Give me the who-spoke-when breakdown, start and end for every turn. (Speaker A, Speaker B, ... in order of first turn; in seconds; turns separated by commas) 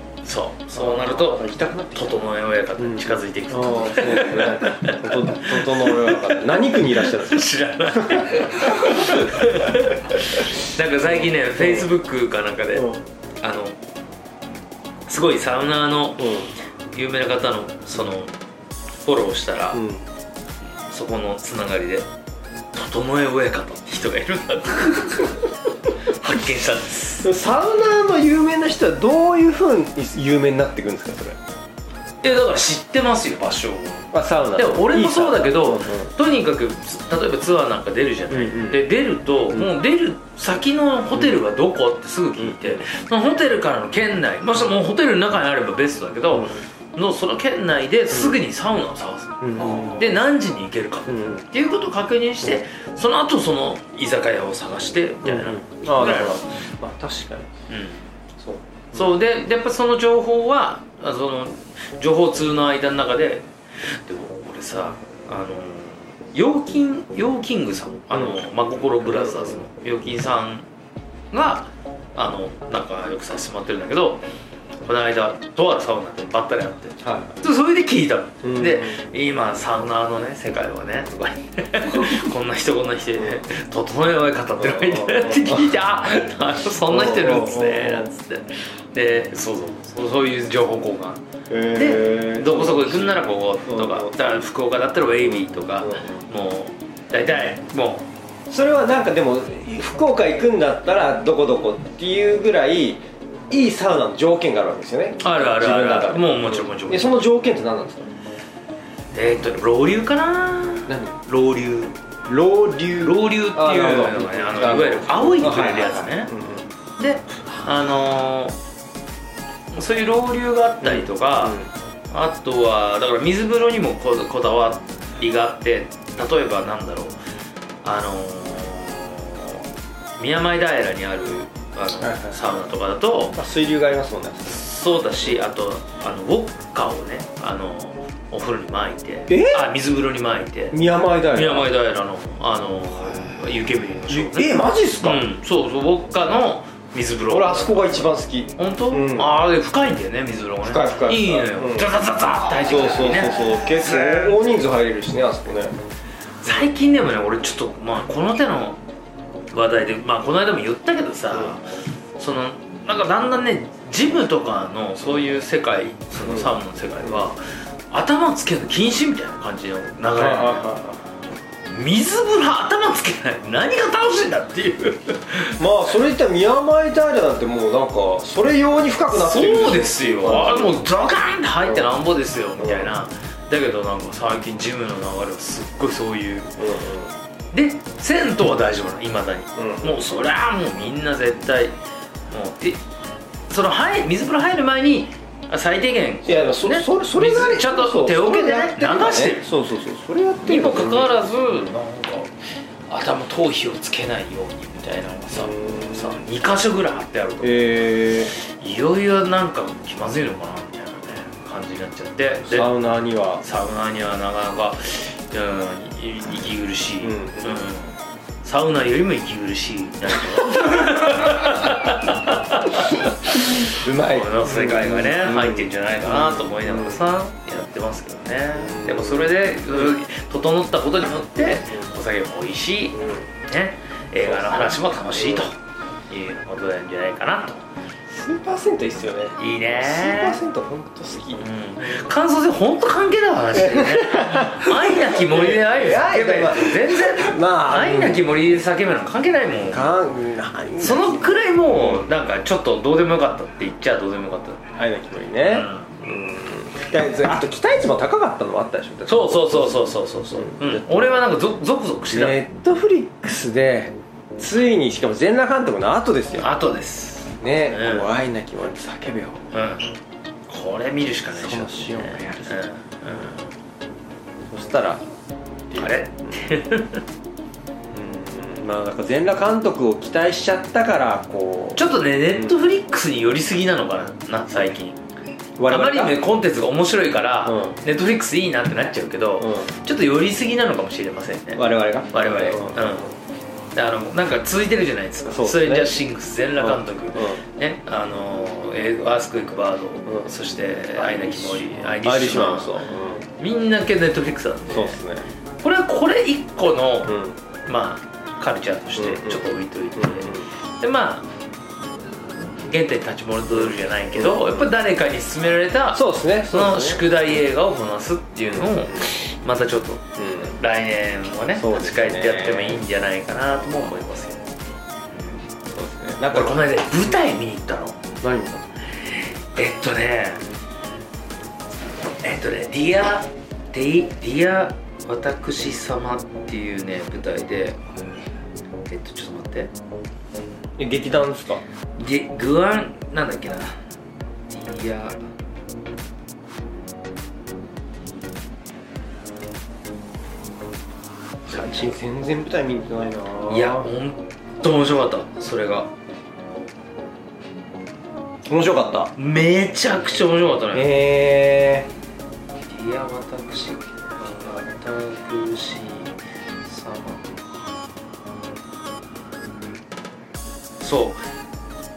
Speaker A: 0.2-13.8, Speaker B: 0.7-2.2, Speaker B: 2.8-9.8, Speaker B: 11.0-11.9, Speaker A: 15.1-16.4, Speaker B: 16.2-16.5, Speaker A: 16.9-18.3, Speaker A: 19.0-19.8, Speaker B: 19.7-20.0, Speaker A: 20.9-22.1, Speaker A: 22.7-25.4, Speaker A: 26.0-27.3, Speaker B: 27.2-31.4, Speaker A: 32.2-56.6, Speaker B: 34.1-36.1, Speaker B: 38.3-38.8, Speaker B: 42.4-42.8, Speaker B: 46.3-46.6, Speaker B: 48.1-48.4, Speaker B: 49.4-50.1, Speaker B: 51.1-51.4, Speaker B: 55.2-57.5, Speaker A: 57.7-58.0, Speaker B: 58.4-59.1, Speaker A: 58.9-70.7, Speaker B: 68.1-68.4, Speaker B: 69.0-69.6, Speaker A: 71.3-74.2, Speaker A: 74.8-98.1, Speaker B: 77.0-77.4, Speaker B: 78.4-79.0, Speaker B: 84.6-85.7, Speaker B: 86.9-88.1, Speaker B: 91.5-94.1, Speaker B: 95.8-96.1, Speaker B: 98.5-108.1, Speaker A: 105.2-107.2, Speaker A: 109.1-112.0, Speaker B: 110.9-111.2, Speaker B: 112.3-116.7, Speaker A: 113.0-116.3, Speaker A: 117.0-118.5, Speaker A: 119.7-121.6, Speaker B: 120.8-121.7, Speaker A: 122.1-127.1, Speaker A: 127.8-129.6, Speaker A: 130.2-133.4, Speaker B: 132.0-132.4, Speaker B: 133.3-134.6, Speaker A: 134.5-140.8, Speaker B: 139.3-139.7, Speaker B: 140.7-141.7, Speaker A: 141.3-154.4, Speaker B: 144.1-145.3, Speaker B: 147.2-149.3, Speaker B: 150.6-152.0, Speaker B: 152.5-155.8, Speaker A: 156.4-158.8, Speaker A: 159.5-161.7, Speaker A: 162.2-167.4, Speaker B: 166.2-167.3, Speaker A: 167.9-170.7, Speaker B: 170.1-171.0, Speaker A: 171.7-175.6, Speaker B: 175.6-180.8, Speaker A: 179.1-186.6, Speaker B: 181.6-181.9, Speaker B: 182.6-182.9, Speaker B: 186.6-187.1, Speaker A: 187.5-191.8, Speaker B: 189.6-190.0, Speaker A: 192.3-192.8, Speaker A: 193.5-199.5, Speaker B: 196.2-201.7, Speaker A: 200.4-202.3, Speaker A: 202.9-212.7, Speaker B: 205.3-206.2, Speaker B: 207.4-208.3, Speaker B: 212.4-213.4, Speaker A: 213.4-235.6, Speaker B: 217.0-217.7, Speaker B: 220.4-221.0, Speaker B: 223.2-227.0, Speaker B: 228.6-229.9, Speaker B: 231.4-231.9, Speaker B: 234.2-235.5, Speaker A: 236.1-237.6, Speaker B: 238.1-241.4, Speaker A: 239.4-240.4, Speaker A: 241.3-250.0, Speaker B: 243.5-248.4, Speaker B: 249.7-252.1, Speaker A: 250.8-254.7, Speaker B: 254.8-261.2, Speaker A: 255.5-256.0, Speaker A: 259.1-262.4, Speaker B: 262.1-266.5, Speaker A: 266.4-268.1, Speaker B: 267.4-269.4, Speaker A: 269.5-270.0, Speaker A: 270.5-273.4, Speaker B: 271.3-272.6, Speaker B: 274.5-275.0, Speaker B: 275.7-276.4, Speaker A: 275.7-277.0, Speaker B: 277.9-282.5, Speaker A: 281.8-285.0, Speaker B: 285.6-286.2, Speaker A: 285.7-293.1, Speaker B: 287.4-287.8, Speaker B: 289.4-289.7, Speaker B: 291.6-293.0, Speaker A: 293.7-302.8, Speaker B: 295.3-295.9, Speaker B: 296.6-297.4, Speaker B: 300.9-303.2, Speaker A: 303.4-305.0, Speaker B: 304.7-305.3, Speaker A: 305.6-311.3, Speaker B: 307.1-307.4, Speaker B: 309.0-310.5, Speaker A: 312.0-324.5, Speaker B: 313.5-314.7, Speaker B: 315.9-317.1, Speaker B: 318.5-319.1, Speaker B: 320.2-320.6, Speaker B: 321.5-322.8, Speaker A: 325.1-325.4, Speaker B: 325.7-326.6, Speaker A: 326.2-328.0, Speaker B: 328.2-328.7, Speaker A: 328.9-330.4, Speaker A: 332.2-337.9, Speaker A: 338.9-339.7, Speaker B: 340.8-341.6, Speaker A: 342.0-343.8, Speaker A: 344.5-345.2, Speaker B: 351.5-353.9, Speaker A: 351.5-351.9, Speaker A: 353.5-355.9, Speaker B: 358.4-359.1, Speaker A: 359.2-360.9, Speaker B: 360.7-361.9, Speaker A: 362.7-367.3, Speaker A: 370.8-371.2